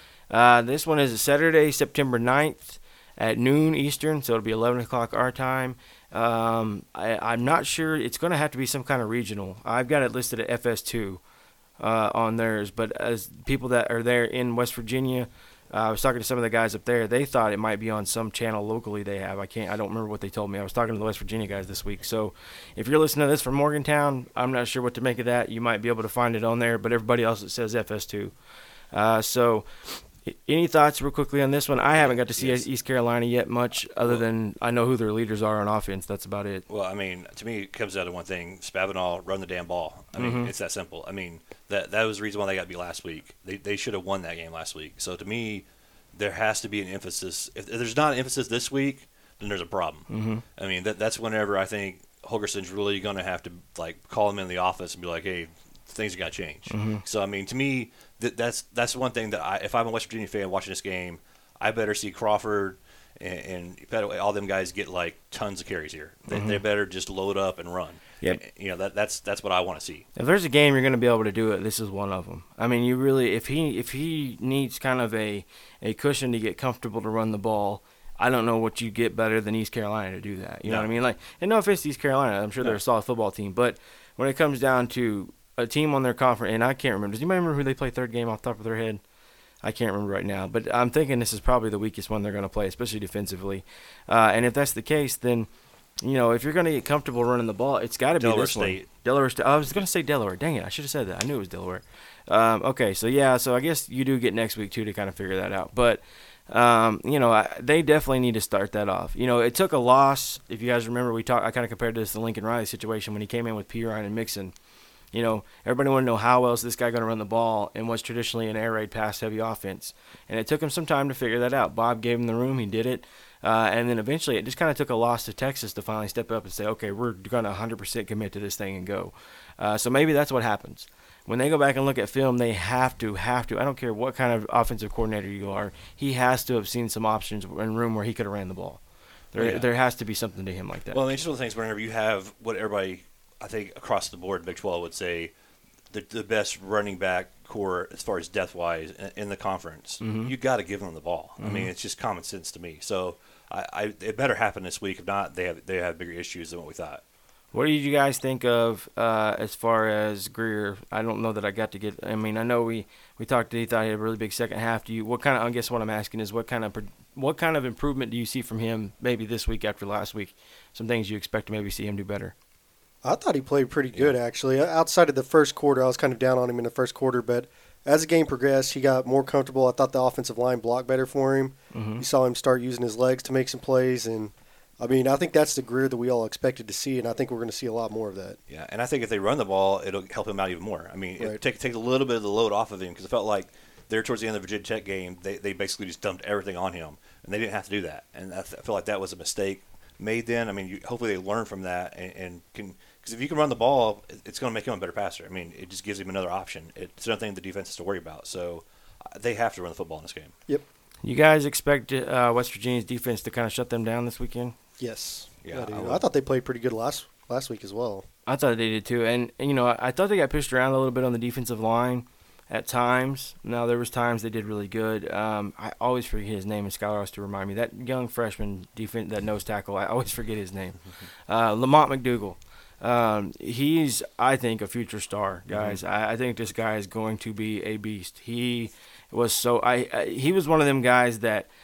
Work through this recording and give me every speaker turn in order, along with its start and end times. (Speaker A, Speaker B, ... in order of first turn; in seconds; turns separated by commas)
Speaker A: 0.3-11.2, Speaker A: 11.8-28.3, Speaker A: 28.9-36.6, Speaker B: 32.0-32.6, Speaker B: 36.7-70.1, Speaker A: 40.2-40.5, Speaker A: 50.1-50.4, Speaker A: 56.7-57.0, Speaker A: 66.3-66.6, Speaker A: 70.2-89.0, Speaker A: 89.6-95.5, Speaker A: 96.0-114.5, Speaker B: 98.2-98.9, Speaker A: 115.1-138.8, Speaker A: 139.3-141.0, Speaker B: 139.4-139.7, Speaker B: 140.9-145.3, Speaker B: 145.9-157.0, Speaker A: 150.0-150.3, Speaker A: 151.4-151.7, Speaker A: 157.5-172.3, Speaker C: 173.0-188.4, Speaker A: 181.7-182.1, Speaker B: 188.5-210.3, Speaker A: 211.0-214.6, Speaker C: 214.8-218.1, Speaker B: 215.4-216.0, Speaker A: 218.3-241.5, Speaker B: 235.5-235.8